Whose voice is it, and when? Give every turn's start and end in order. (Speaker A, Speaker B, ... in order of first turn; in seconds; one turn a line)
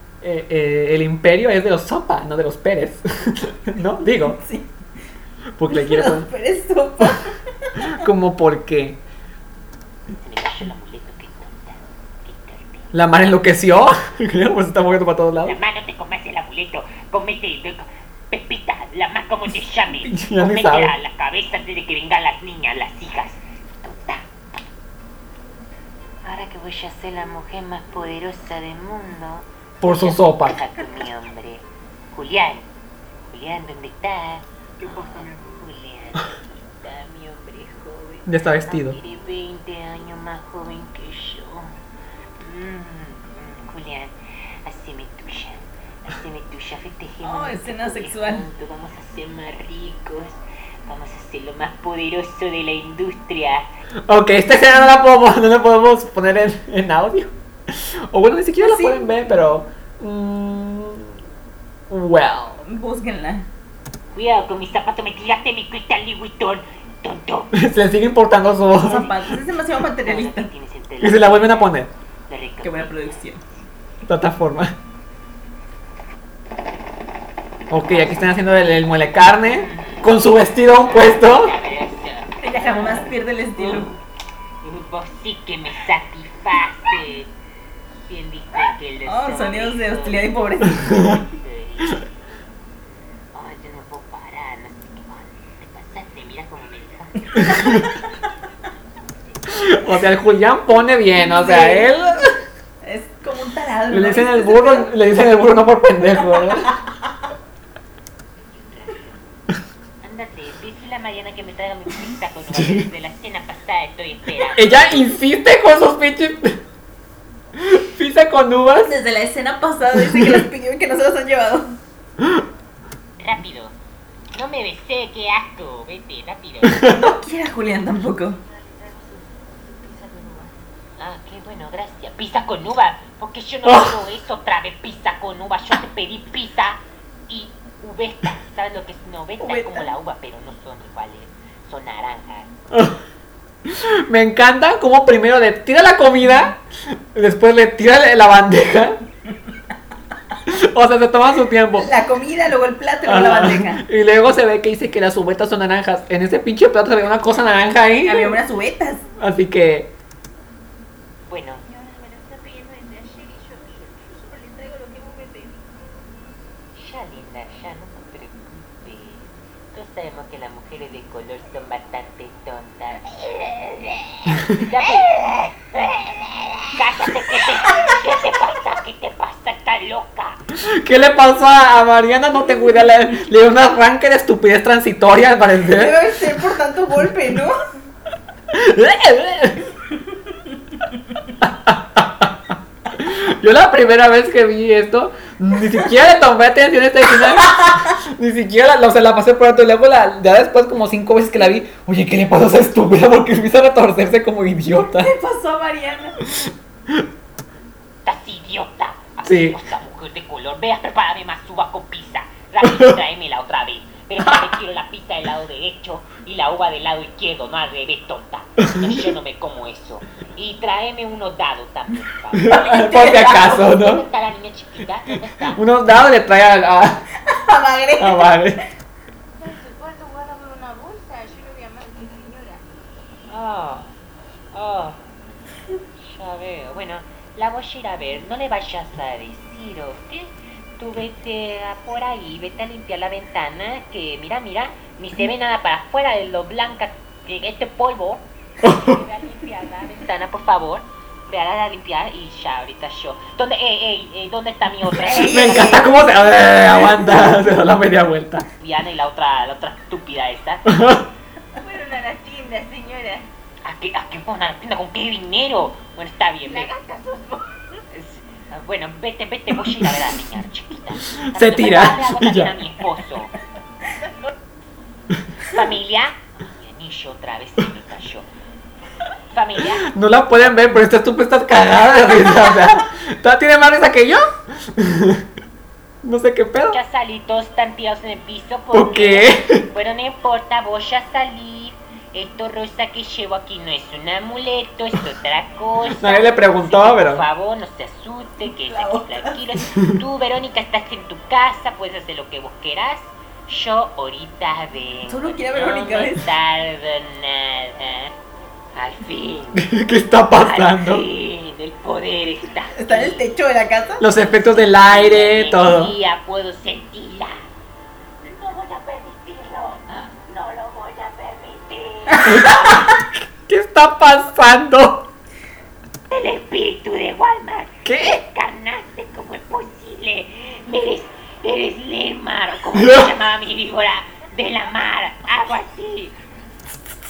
Speaker A: 0.2-4.4
Speaker B: 4.2-4.7
Speaker A: 5.5-6.3
Speaker B: 5.7-7.9
Speaker A: 7.8-9.0
Speaker C: 10.1-12.9
Speaker A: 12.9-15.6
Speaker C: 15.4-24.3
Speaker A: 20.1-20.9
Speaker C: 26.2-32.7
Speaker A: 29.8-30.6
Speaker C: 33.3-41.7
Speaker A: 38.3-39.0
Speaker C: 42.4-53.7
Speaker B: 47.2-48.5
Speaker A: 54.1-61.2
Speaker B: 58.6-59.1
Speaker A: 61.9-62.6
Speaker B: 62.6-63.5
Speaker C: 64.1-67.5
Speaker A: 67.5-69.3
Speaker B: 68.8-70.5
Speaker C: 70.0-71.7
Speaker A: 71.0-71.9
Speaker C: 72.3-73.3
Speaker B: 72.6-73.4
Speaker A: 74.1-74.8
Speaker A: 77.7-81.5
Speaker C: 77.9-78.3
Speaker C: 79.4-80.1
Speaker C: 80.9-83.9
Speaker B: 82.4-83.9
Speaker C: 84.6-87.3
Speaker C: 88.1-92.0
Speaker B: 89.1-91.2
Speaker C: 93.3-97.9
Speaker A: 99.5-102.3
Speaker B: 101.3-101.9
Speaker B: 102.8-104.9
Speaker A: 103.9-106.8
Speaker C: 108.5-109.2
Speaker C: 110.0-114.7
Speaker A: 112.5-112.9
Speaker A: 114.5-116.6
Speaker A: 117.6-119.0
Speaker B: 118.8-121.8
Speaker A: 120.0-120.4
Speaker C: 123.2-123.8
Speaker C: 124.3-127.0
Speaker A: 126.7-127.0
Speaker B: 126.9-128.4
Speaker D: 128.4-130.6
Speaker C: 131.0-142.5
Speaker A: 133.7-134.0
Speaker B: 139.4-139.9
Speaker A: 142.7-143.0
Speaker A: 143.7-149.0
Speaker A: 150.5-151.9
Speaker B: 151.8-153.8
Speaker A: 153.1-158.4
Speaker B: 158.1-159.1
Speaker A: 159.2-159.9
Speaker C: 161.3-161.6
Speaker D: 161.7-165.7
Speaker C: 166.8-180.4
Speaker A: 174.3-174.7
Speaker A: 180.6-186.3
Speaker B: 185.7-187.7
Speaker A: 188.5-189.6
Speaker A: 191.4-205.1
Speaker B: 204.9-206.2
Speaker A: 206.2-207.1
Speaker C: 208.1-225.6
Speaker A: 209.2-209.6
Speaker A: 212.6-213.0
Speaker A: 218.6-219.1
Speaker A: 222.3-224.0
Speaker B: 222.5-223.7
Speaker A: 225.4-227.1
Speaker B: 227.3-228.3
Speaker A: 228.0-228.6
Speaker D: 229.4-232.6
Speaker C: 233.3-233.9
Speaker C: 234.5-235.0
Speaker C: 236.0-256.0
Speaker A: 248.6-249.0
Speaker A: 255.0-258.5
Speaker B: 255.0-256.0
Speaker C: 258.6-260.7
Speaker A: 260.7-261.1
Speaker D: 261.6-263.3
Speaker C: 263.6-266.7
Speaker D: 266.4-267.6
Speaker C: 267.9-273.3
Speaker A: 271.1-272.6
Speaker C: 275.4-278.3
Speaker C: 279.3-279.9
Speaker A: 279.8-285.2
Speaker A: 286.0-286.8
Speaker C: 286.6-308.1
Speaker A: 288.7-289.7
Speaker A: 295.9-297.2
Speaker B: 298.6-299.4
Speaker B: 305.1-306.3
Speaker C: 308.7-309.7
Speaker A: 309.6-311.1
Speaker C: 310.3-313.2
Speaker B: 312.8-314.1
Speaker A: 314.0-315.9
Speaker C: 314.0-317.4
Speaker C: 318.2-322.9
Speaker A: 322.2-325.1
Speaker C: 326.1-336.1
Speaker A: 327.9-328.2
Speaker A: 332.8-333.1